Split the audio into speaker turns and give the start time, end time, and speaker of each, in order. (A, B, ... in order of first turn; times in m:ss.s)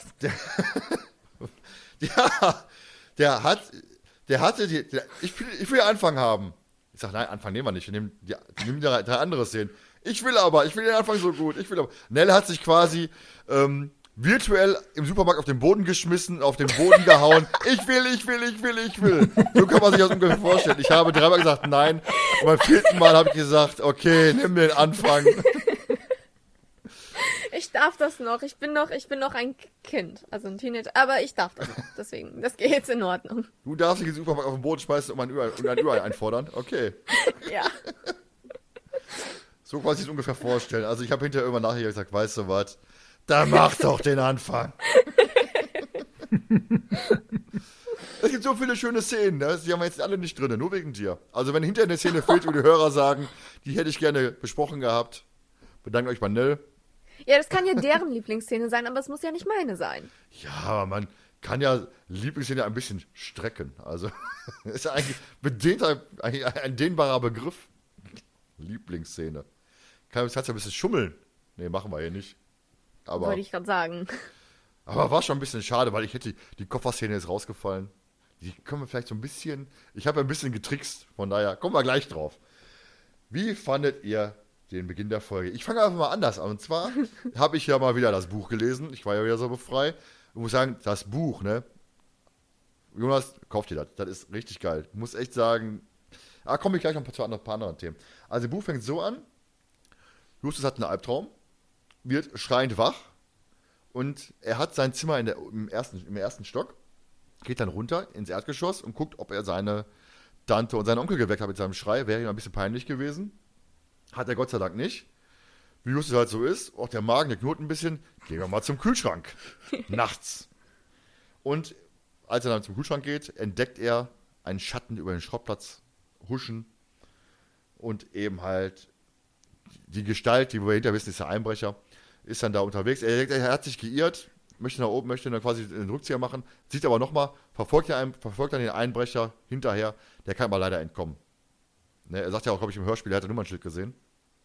0:00.2-0:25.7 A
0:25.3-0:25.8 B
0:27.2-0:33.5 B
0:33.6-0:37.5 A
0:37.2-0:37.8 B
0:39.6-0:44.9 A
0:45.1-0:45.9 B
0:48.1-0:55.2 A
0:55.8-0:56.6 A
0:57.2-1:00.1 B
1:00.3-1:09.4 A
1:10.1-1:12.4 A
1:13.0-1:13.4 A
1:13.2-1:14.3 B
1:14.8-1:22.4 A
1:23.3-1:31.6 A
1:32.9-1:35.9 A
1:36.4-1:39.2 A
1:40.4-1:41.3 A
1:42.0-1:43.1 A
1:43.9-1:46.8 A
1:47.4-1:49.9 A
1:50.4-1:53.4 A
1:54.1-1:55.1 A
1:55.8-2:00.5 A
2:01.4-2:01.7 A
2:02.3-2:06.7 A
2:07.8-2:08.9 A
2:09.8-2:21.2 A
2:22.0-2:24.0 A